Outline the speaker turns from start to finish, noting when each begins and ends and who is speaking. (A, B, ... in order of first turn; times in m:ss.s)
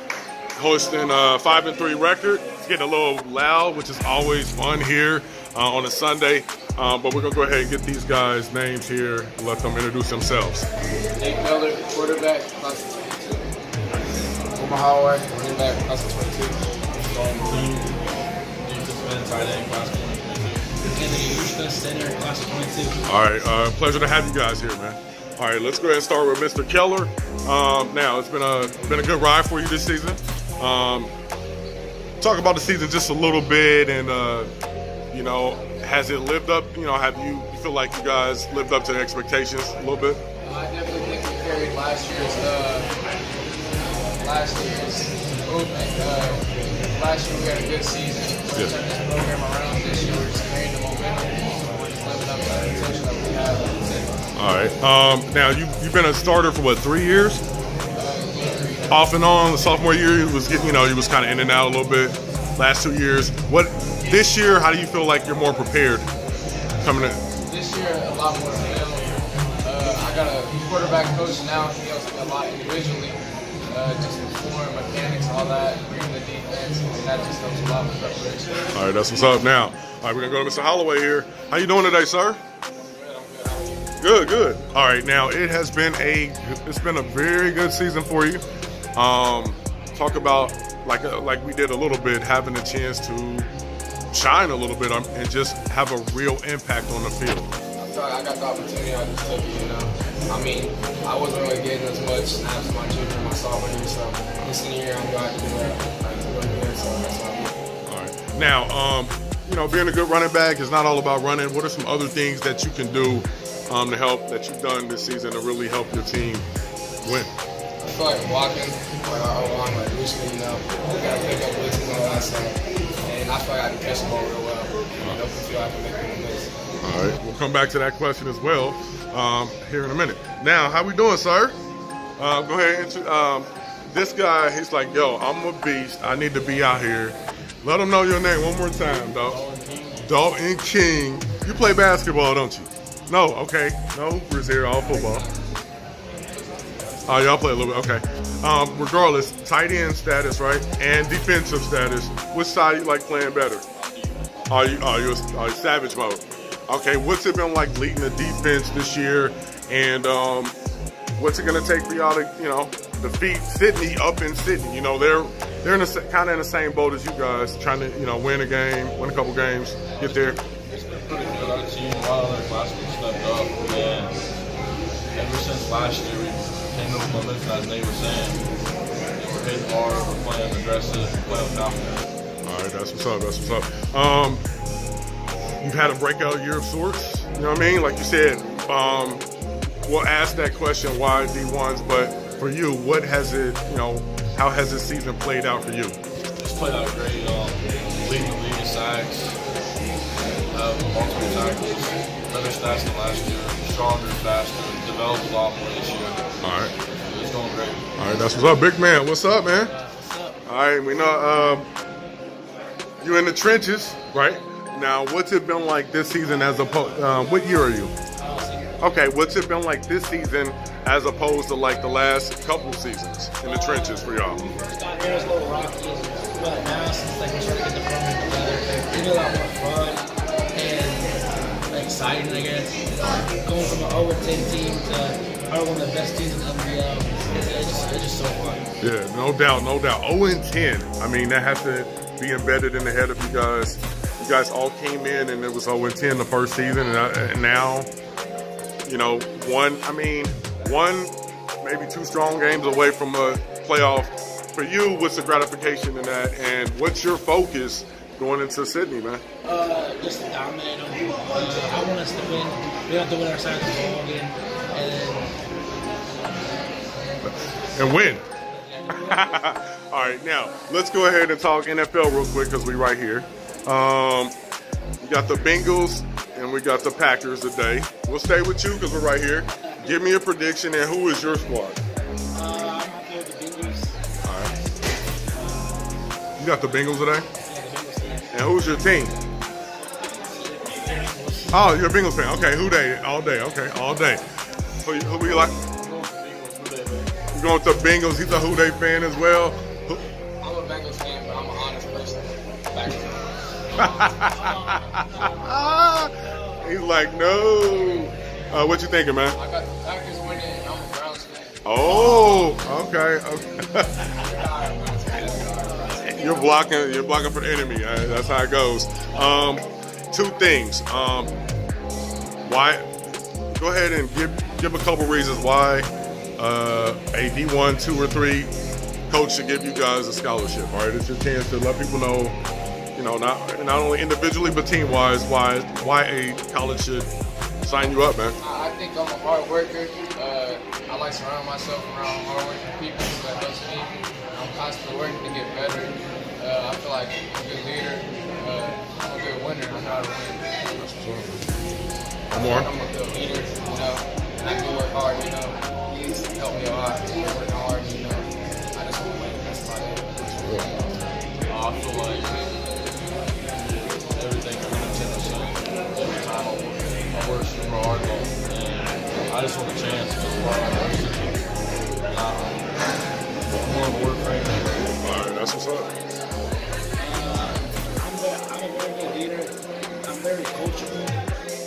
0:00.6-0:10.7 A
0:11.2-0:13.5 B
0:14.6-0:16.6 B
0:17.0-0:18.0 C
0:18.6-0:20.7 C
0:20.8-0:23.0 D
0:23.1-0:31.1 A
0:32.2-0:34.5 A
0:35.1-0:40.2 A
0:40.4-0:42.9 B
0:44.2-0:54.1 B
0:54.4-0:57.4 A
0:57.9-0:58.9 B
0:58.9-1:06.1 A
1:06.8-1:07.2 A
1:07.4-1:18.7 B
1:18.7-1:22.4 A
1:22.8-1:24.0 B
1:24.0-1:28.4 A
1:29.0-1:33.5 A
1:34.1-1:37.5 A
1:37.8-1:47.5 B
1:47.9-1:56.5 A
1:57.0-1:57.3 A
1:57.8-2:06.5 B
2:06.8-2:11.6 A
2:12.2-2:19.4 A
2:18.9-2:20.1 C
2:20.1-2:25.3 A
2:24.8-2:25.6 B
2:26.3-2:27.1 B
2:27.1-2:33.6 A
2:33.8-2:34.7 C
2:34.5-2:40.6 A
2:36.3-2:36.6 C
2:41.2-2:50.4 A
2:50.0-2:54.2 C
2:50.2-2:50.8 D
2:55.1-2:58.4 C
2:59.2-3:02.0 C
3:02.4-3:04.4 A
3:05.6-3:09.2 A
3:09.9-3:16.0 A
3:16.4-3:19.4 C
3:20.5-3:26.2 C
3:26.4-3:26.7 A
3:27.0-3:27.8 C
3:28.0-3:29.7 A
3:29.6-3:30.4 D
3:30.5-3:31.7 A
3:33.0-3:37.9 A
3:38.2-3:38.9 D
3:38.8-3:44.4 A
3:43.4-3:51.1 D
3:51.7-3:58.6 D
3:58.8-4:07.9 A
4:08.9-4:19.2 A
4:19.4-4:25.4 D
4:27.2-4:28.2 A
4:28.5-4:29.4 D
4:28.9-4:34.3 A
4:35.0-4:41.8 A
4:39.6-4:40.0 D
4:42.3-4:44.0 D
4:44.2-4:44.5 A
4:45.3-4:45.9 D
4:46.4-4:47.3 A
4:47.4-4:49.1 D
4:48.3-4:49.2 A
4:49.8-4:51.5 D
4:51.5-4:54.2 A
4:54.8-4:55.5 A
4:55.2-4:57.1 C
4:57.3-5:00.0 A
5:00.4-5:04.1 B
5:03.8-5:09.4 A
5:04.1-5:06.3 D
5:09.4-5:12.5 B
5:11.6-5:14.0 A
5:14.2-5:16.2 B
5:16.2-5:21.3 A
5:22.5-5:22.9 A
5:23.6-5:28.5 A
5:29.1-5:32.4 A
5:33.0-5:37.1 A
5:37.6-5:38.4 A
5:38.4-5:50.5 B
5:50.8-5:51.4 A
5:52.3-5:52.7 A
5:52.4-6:00.6 B
6:00.4-6:00.7 A
6:01.5-6:02.4 C
6:03.5-6:11.4 C
6:12.1-6:12.7 C
6:13.5-6:14.8 C
6:15.0-6:15.9 A
6:17.0-6:21.2 D